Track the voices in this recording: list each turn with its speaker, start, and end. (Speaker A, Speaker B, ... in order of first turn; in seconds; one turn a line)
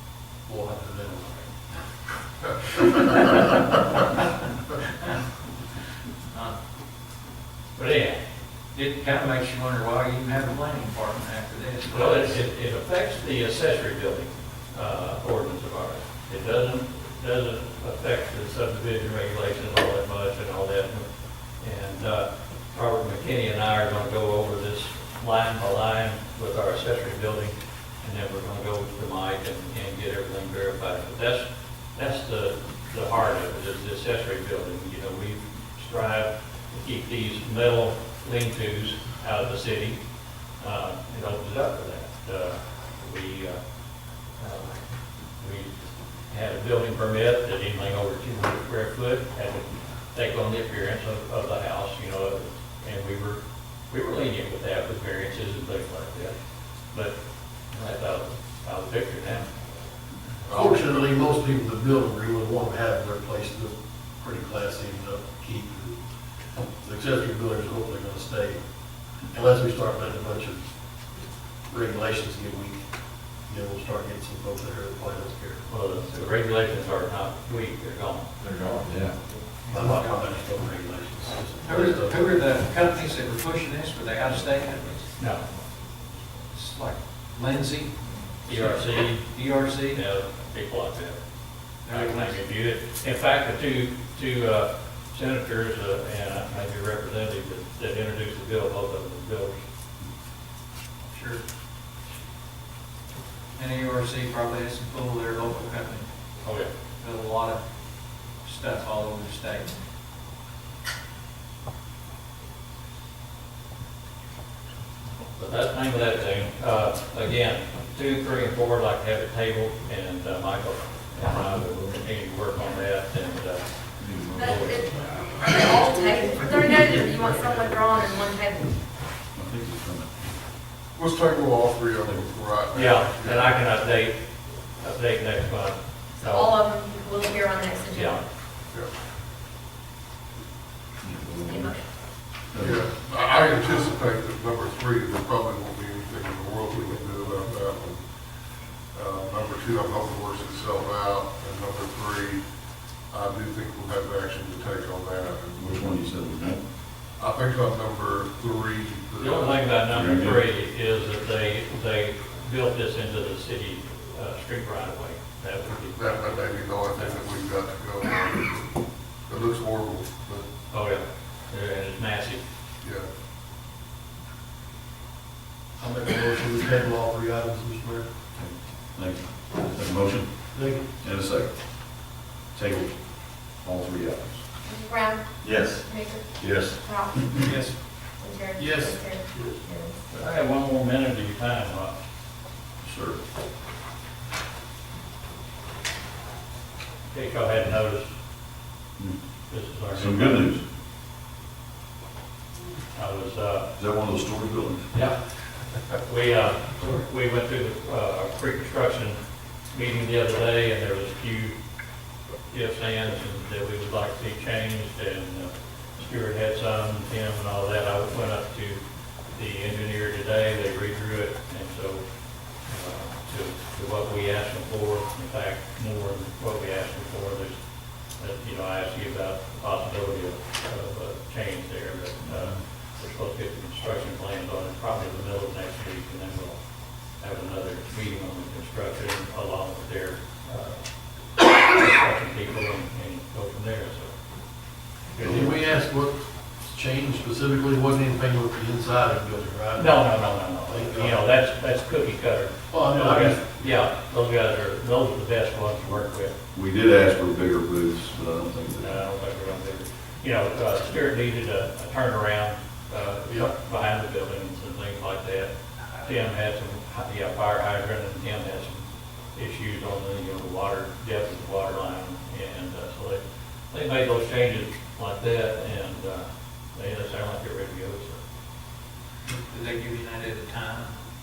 Speaker A: 0.5-1.5
Speaker B: 7.8-8.2
Speaker C: 8.7-12.4
Speaker B: 11.9-21.1
Speaker B: 21.6-40.0
Speaker B: 40.6-43.6
Speaker B: 44.4-44.8
Speaker B: 45.4-56.4
Speaker B: 57.7-59.5
Speaker D: 60.5-61.0
Speaker A: 60.5-66.0
Speaker A: 66.8-68.6
Speaker A: 69.3-70.6
Speaker A: 71.7-72.8
Speaker A: 73.5-75.6
Speaker B: 75.7-78.3
Speaker C: 79.6-80.0
Speaker A: 79.7-82.8
Speaker C: 81.6-85.2
Speaker B: 85.2-85.5
Speaker C: 86.5-90.0
Speaker B: 88.5-91.2
Speaker C: 91.8-92.4
Speaker B: 91.9-99.6
Speaker C: 101.1-101.4
Speaker C: 103.5-106.1
Speaker B: 106.4-106.7
Speaker C: 107.0-107.6
Speaker C: 108.4-109.8
Speaker B: 115.3-123.7
Speaker E: 124.0-125.2
Speaker F: 124.3-128.8
Speaker B: 124.4-124.8
Speaker D: 127.1-127.7
Speaker E: 129.3-130.2
Speaker D: 130.9-133.6
Speaker B: 132.7-134.2
Speaker B: 134.8-136.6
Speaker F: 136.2-138.2
Speaker B: 137.9-138.2
Speaker F: 141.4-141.8
Speaker E: 142.5-142.8
Speaker D: 142.6-148.0
Speaker D: 148.9-152.4
Speaker D: 153.1-155.8
Speaker E: 155.6-156.6
Speaker D: 157.2-159.7
Speaker B: 159.2-167.2
Speaker E: 159.9-160.4
Speaker D: 165.9-170.4
Speaker B: 170.7-172.4
Speaker D: 172.8-173.1
Speaker A: 175.8-178.1
Speaker E: 178.4-180.3
Speaker A: 180.5-180.9
Speaker E: 181.0-181.6
Speaker E: 182.5-184.4
Speaker F: 184.7-187.3
Speaker E: 186.4-186.8
Speaker C: 187.4-187.8
Speaker F: 188.2-190.0
Speaker A: 188.6-189.4
Speaker B: 190.1-191.9
Speaker E: 192.8-193.2
Speaker B: 197.1-198.1
Speaker B: 199.5-200.4
Speaker E: 199.9-200.6
Speaker B: 202.9-203.7
Speaker E: 203.8-204.8
Speaker B: 206.0-209.2
Speaker B: 209.7-211.5
Speaker B: 212.5-218.8
Speaker B: 219.3-222.0
Speaker B: 222.7-227.6
Speaker B: 228.2-236.6
Speaker B: 237.2-240.8
Speaker B: 241.4-244.1
Speaker B: 245.1-245.5
Speaker A: 245.2-251.2
Speaker B: 249.8-256.3
Speaker A: 252.7-253.6
Speaker E: 256.5-258.9
Speaker B: 258.8-265.5
Speaker B: 266.0-278.2
Speaker C: 279.4-280.9